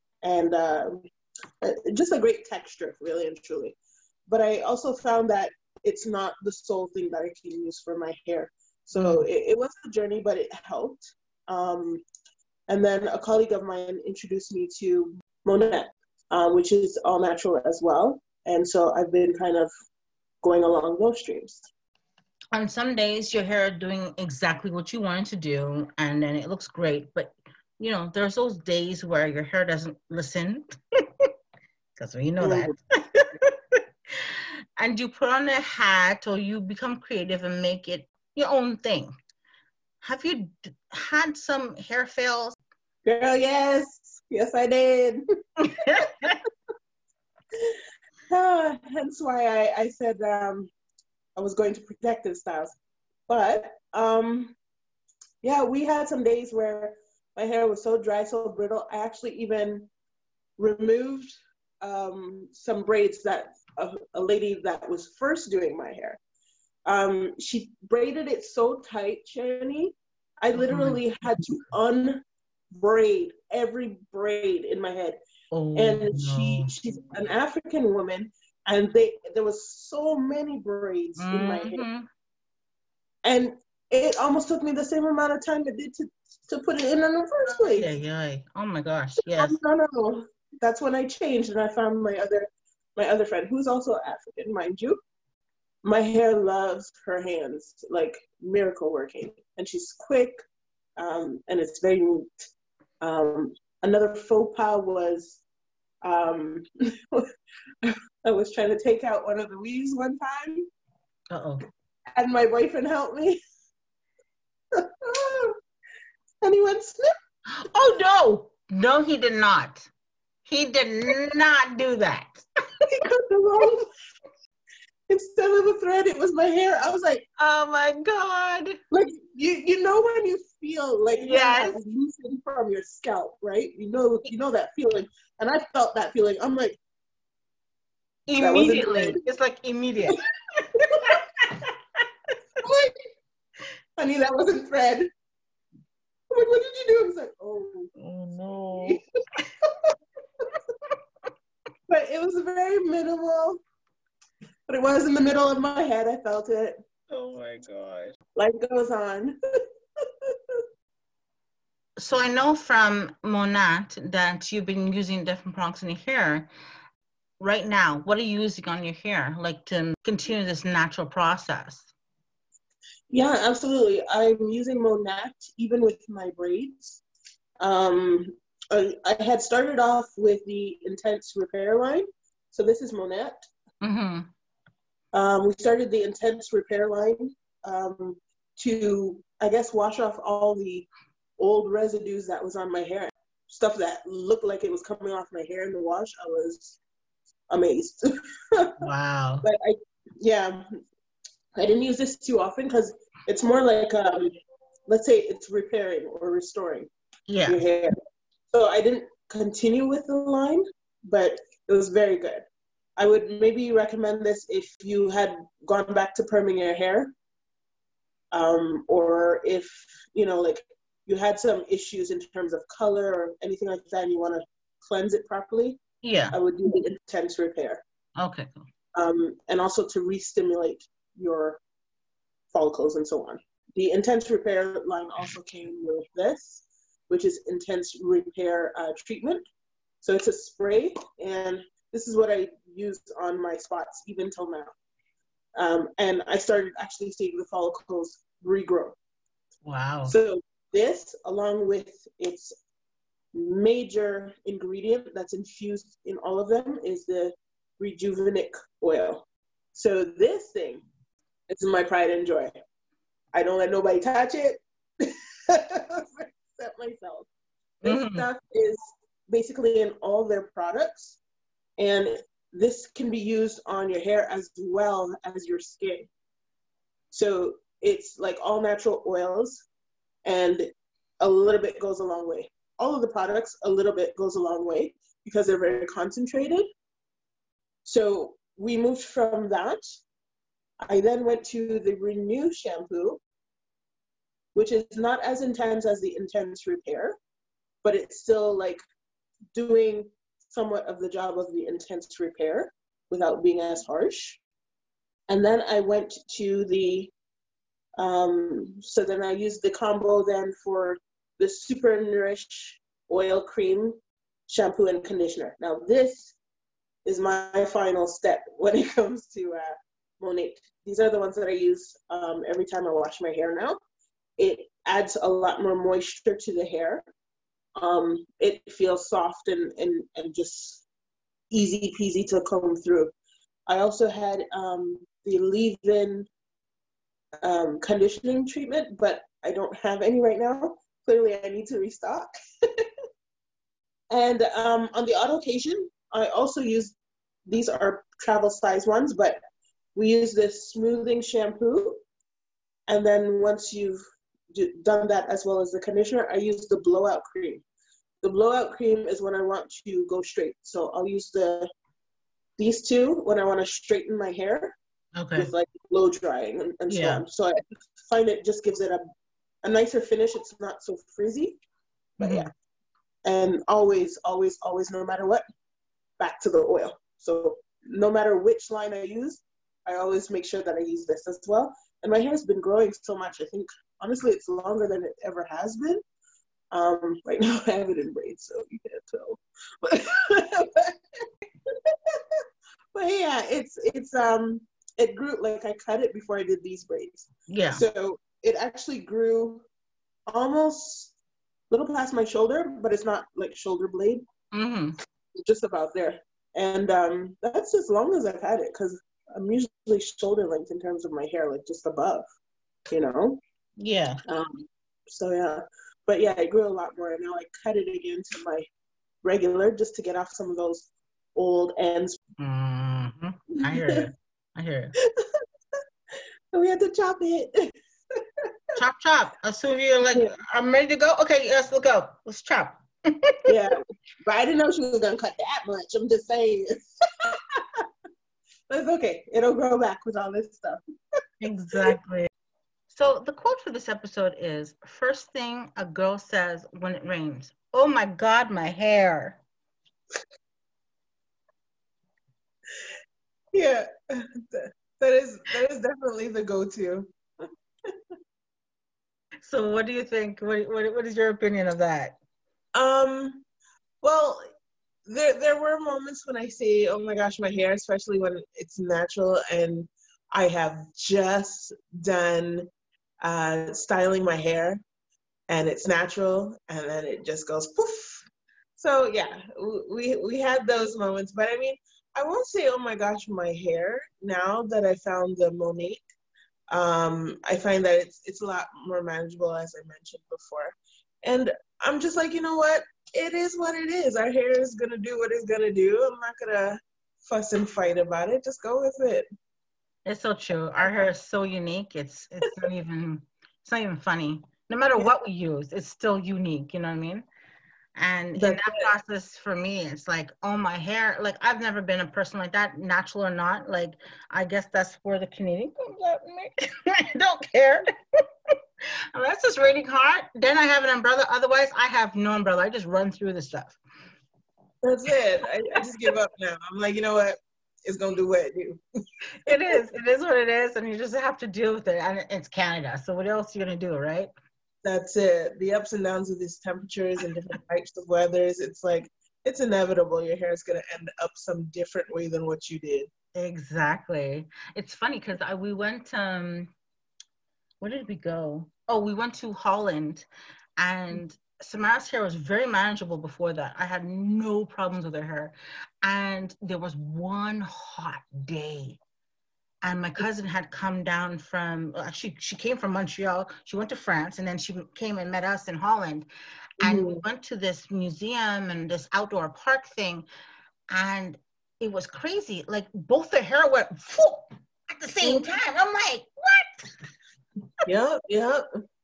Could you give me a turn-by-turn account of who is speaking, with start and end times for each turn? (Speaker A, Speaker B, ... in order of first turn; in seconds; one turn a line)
Speaker A: 0.2-1.0
Speaker A: 1.6-3.8
Speaker A: 4.3-12.0
Speaker B: 8.9-9.2
Speaker A: 12.7-19.7
Speaker A: 20.4-21.7
Speaker B: 22.5-30.6
Speaker B: 31.9-39.1
Speaker A: 32.4-32.7
Speaker B: 40.0-42.5
Speaker A: 43.0-45.2
Speaker B: 45.6-46.4
Speaker A: 48.3-50.7
Speaker A: 51.4-52.8
Speaker A: 53.3-54.5
Speaker A: 55.4-59.9
Speaker A: 60.6-66.2
Speaker A: 66.8-75.2
Speaker B: 70.6-71.0
Speaker B: 75.5-76.7
Speaker A: 75.7-81.8
Speaker B: 81.2-82.1
Speaker A: 83.2-87.9
Speaker B: 87.6-89.6
Speaker A: 89.3-95.0
Speaker A: 95.8-100.4
Speaker A: 101.0-102.3
Speaker A: 103.0-105.4
Speaker A: 106.0-107.2
Speaker A: 107.8-110.7
Speaker B: 111.3-111.6
Speaker A: 112.2-113.4
Speaker A: 114.8-115.5
Speaker A: 116.4-117.1
Speaker B: 117.5-119.9
Speaker B: 120.5-122.4
Speaker A: 122.9-123.9
Speaker A: 125.1-127.2
Speaker B: 127.4-128.8
Speaker A: 128.9-136.8
Speaker B: 131.2-131.8
Speaker B: 138.3-140.2
Speaker A: 138.4-139.2
Speaker B: 140.7-142.0
Speaker A: 140.8-141.2
Speaker A: 142.6-142.9
Speaker A: 144.0-145.1
Speaker A: 146.3-147.9
Speaker B: 148.0-149.0
Speaker A: 148.7-149.0
Speaker A: 151.9-153.6
Speaker A: 154.7-156.8
Speaker B: 157.1-158.1
Speaker A: 158.3-159.3
Speaker B: 162.0-166.5
Speaker B: 167.4-171.9
Speaker A: 173.1-177.0
Speaker A: 177.6-183.5
Speaker B: 183.8-184.3
Speaker A: 185.1-190.9
Speaker A: 191.4-196.8
Speaker A: 197.5-198.0
Speaker B: 198.8-199.4
Speaker A: 199.4-200.6
Speaker A: 201.6-204.3
Speaker A: 204.9-206.9
Speaker B: 207.3-207.6
Speaker A: 207.5-207.9
Speaker A: 208.5-212.4
Speaker A: 213.0-217.1
Speaker A: 218.3-225.8
Speaker B: 226.0-226.3
Speaker A: 226.3-227.8
Speaker B: 228.2-228.6
Speaker A: 228.9-231.6
Speaker A: 232.5-239.4
Speaker A: 240.0-244.7
Speaker A: 245.6-248.9
Speaker B: 249.6-250.1
Speaker A: 250.0-252.5
Speaker A: 253.3-260.8
Speaker A: 261.5-262.5
Speaker A: 263.3-264.6
Speaker A: 265.5-267.3
Speaker B: 267.8-268.3
Speaker A: 267.8-271.2
Speaker A: 271.8-276.1
Speaker A: 277.1-279.6
Speaker A: 280.2-280.7
Speaker A: 281.2-286.6
Speaker A: 287.8-289.8
Speaker A: 290.9-293.2
Speaker A: 294.5-297.1
Speaker A: 297.8-298.9
Speaker A: 299.5-304.4
Speaker A: 305.3-307.1
Speaker A: 308.0-314.0
Speaker A: 314.5-316.4
Speaker A: 317.0-323.8
Speaker A: 324.4-327.0
Speaker A: 327.8-330.8
Speaker A: 331.5-333.1
Speaker A: 333.7-336.3
Speaker A: 337.4-342.3
Speaker A: 344.1-346.9
Speaker A: 347.5-349.4
Speaker A: 349.9-352.0
Speaker A: 352.9-354.0
Speaker A: 354.5-357.6
Speaker A: 358.2-361.6
Speaker A: 362.6-364.7
Speaker B: 365.2-365.5
Speaker A: 365.3-367.6
Speaker B: 366.9-367.2
Speaker A: 368.1-369.0
Speaker A: 369.6-371.6
Speaker A: 372.2-372.5
Speaker B: 372.2-372.5
Speaker A: 373.2-375.4
Speaker A: 376.2-386.0
Speaker A: 386.7-390.9
Speaker A: 392.9-399.6
Speaker B: 397.5-397.8
Speaker A: 400.3-401.1
Speaker A: 401.7-404.2
Speaker B: 404.5-404.9
Speaker A: 405.4-412.2
Speaker A: 412.9-413.4
Speaker B: 413.8-414.2
Speaker A: 414.3-418.6
Speaker A: 419.2-422.2
Speaker B: 422.4-424.9
Speaker A: 423.6-424.1
Speaker A: 426.5-427.7
Speaker B: 428.8-433.4
Speaker A: 433.4-437.4
Speaker A: 438.7-440.8
Speaker B: 441.4-442.3
Speaker B: 442.9-449.4
Speaker A: 453.5-457.1
Speaker B: 459.4-462.1
Speaker A: 462.8-463.4
Speaker A: 464.0-464.5
Speaker A: 465.1-472.7
Speaker A: 473.2-474.8
Speaker A: 475.5-486.0
Speaker A: 486.7-499.3
Speaker B: 500.0-507.2
Speaker B: 507.9-517.9
Speaker A: 508.4-508.9
Speaker B: 519.1-523.8
Speaker A: 524.8-528.8
Speaker B: 529.5-534.3
Speaker A: 529.5-529.7
Speaker A: 534.8-543.1
Speaker B: 543.3-546.7
Speaker B: 547.8-550.3
Speaker B: 550.8-559.0
Speaker B: 559.8-566.3
Speaker B: 566.8-570.2
Speaker A: 566.8-567.2
Speaker B: 570.9-576.9
Speaker A: 577.8-578.6